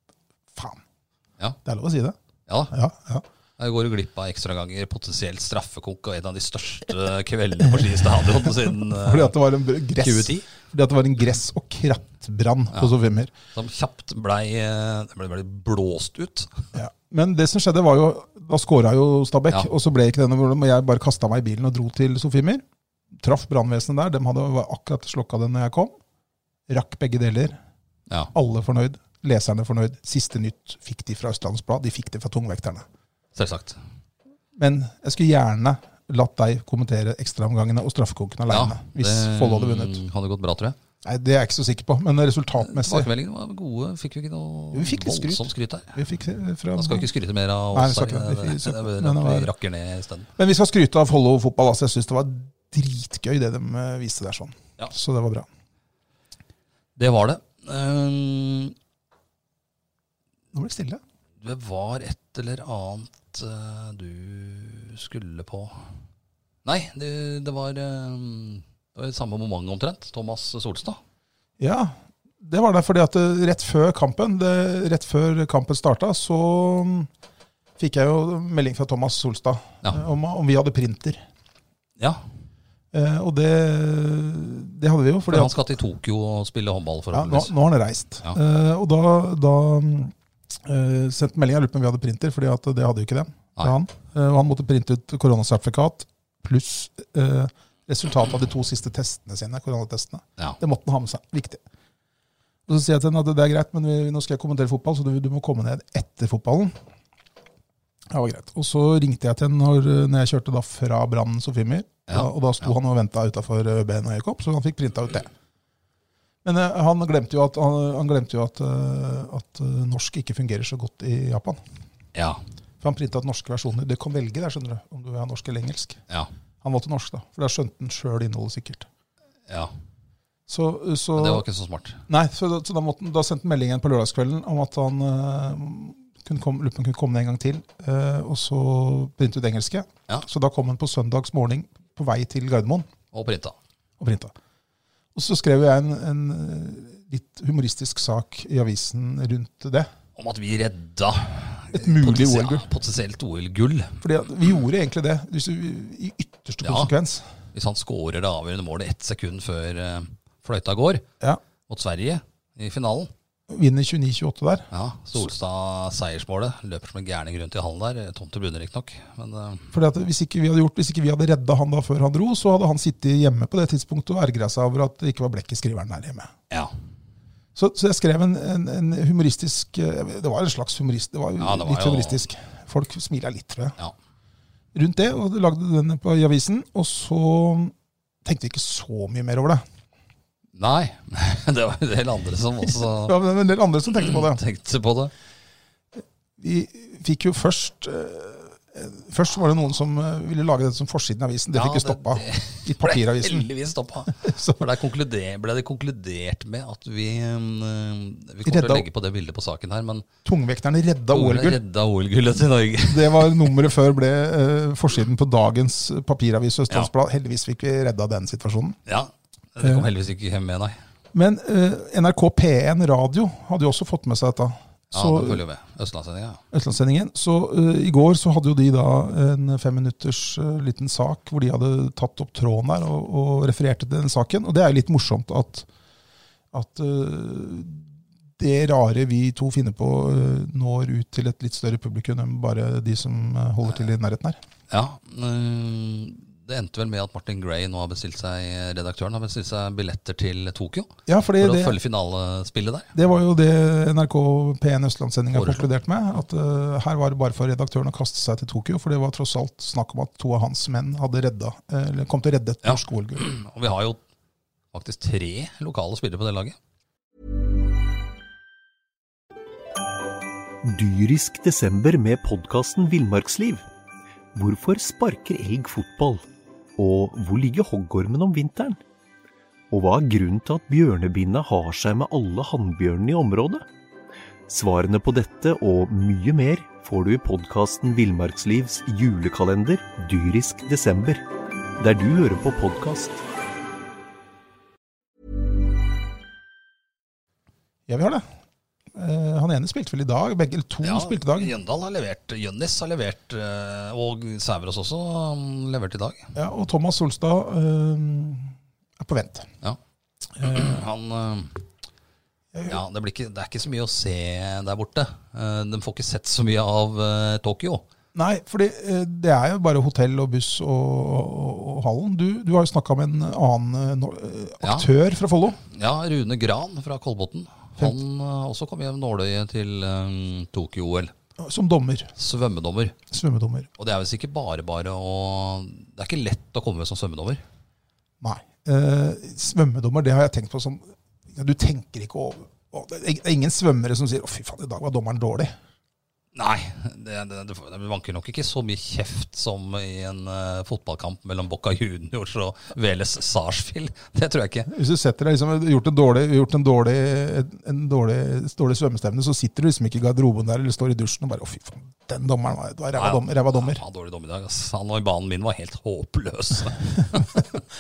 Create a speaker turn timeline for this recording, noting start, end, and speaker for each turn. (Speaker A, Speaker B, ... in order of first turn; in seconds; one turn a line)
Speaker A: 0.6-0.8
Speaker A: 1.6-2.2
Speaker B: 2.5-2.7
Speaker A: 2.7-3.2
Speaker B: 3.6-9.3
Speaker A: 8.4-13.3
Speaker B: 10.0-10.5
Speaker B: 13.5-16.7
Speaker A: 16.7-22.6
Speaker A: 23.2-25.9
Speaker A: 26.7-27.6
Speaker A: 28.3-32.9
Speaker B: 33.4-33.8
Speaker A: 34.6-40.0
Speaker B: 38.5-40.8
Speaker A: 41.0-43.1
Speaker B: 42.6-46.0
Speaker A: 44.7-47.1
Speaker B: 46.8-50.3
Speaker A: 47.7-49.5
Speaker A: 50.4-55.5
Speaker B: 57.0-58.7
Speaker A: 60.5-61.0
Speaker B: 61.4-65.8
Speaker B: 66.7-71.0
Speaker A: 71.6-77.1
Speaker A: 77.8-81.2
Speaker A: 82.9-85.6
Speaker B: 85.3-87.5
Speaker A: 87.1-101.6
Speaker A: 102.7-106.8
Speaker A: 108.1-115.3
Speaker B: 112.1-112.7
Speaker A: 116.4-121.6
Speaker B: 122.2-122.4
Speaker A: 122.8-126.0
Speaker A: 126.6-128.9
Speaker A: 130.5-131.4
Speaker B: 131.2-132.0
Speaker A: 132.1-142.9
Speaker B: 143.1-143.6
Speaker A: 144.0-144.3
Speaker A: 145.2-149.9
Speaker B: 150.2-154.0
Speaker A: 151.7-152.7
Speaker A: 154.0-157.3
Speaker B: 156.6-156.9
Speaker B: 157.5-161.0
Speaker B: 161.7-163.1
Speaker A: 163.5-164.7
Speaker B: 164.7-169.7
Speaker A: 169.7-176.3
Speaker A: 177.6-183.8
Speaker B: 181.4-182.2
Speaker A: 184.7-189.6
Speaker B: 190.6-193.2
Speaker A: 192.7-194.4
Speaker B: 193.9-195.1
Speaker A: 196.4-203.5
Speaker B: 201.5-210.1
Speaker A: 204.1-204.6
Speaker A: 208.4-208.9
Speaker A: 210.2-211.6
Speaker B: 211.1-213.5
Speaker A: 212.9-218.8
Speaker B: 218.9-220.8
Speaker A: 219.6-219.9
Speaker A: 221.1-225.4
Speaker B: 224.9-226.4
Speaker A: 226.5-235.7
Speaker A: 236.5-244.4
Speaker B: 244.7-252.9
Speaker A: 251.1-251.8
Speaker A: 252.9-263.2
Speaker B: 255.3-255.7
Speaker B: 262.6-264.0
Speaker B: 264.7-266.6
Speaker C: 270.6-273.7
Speaker C: 274.4-276.2
Speaker C: 276.8-278.8
Speaker C: 279.7-283.7
Speaker C: 284.5-291.2
Speaker C: 291.8-293.2
Speaker A: 297.9-298.2
Speaker A: 298.9-301.5
Speaker B: 300.8-306.3
Speaker A: 306.4-309.5
Speaker B: 310.4-311.6
Speaker A: 312.5-312.8
Speaker B: 312.7-317.9
Speaker A: 318.1-325.6
Speaker B: 324.6-324.9
Speaker B: 325.7-331.1
Speaker A: 331.4-332.1
Speaker B: 332.2-333.0
Speaker A: 333.1-333.7
Speaker B: 333.8-337.4
Speaker A: 338.2-345.6
Speaker B: 346.4-354.7
Speaker A: 354.7-363.8
Speaker B: 362.9-367.6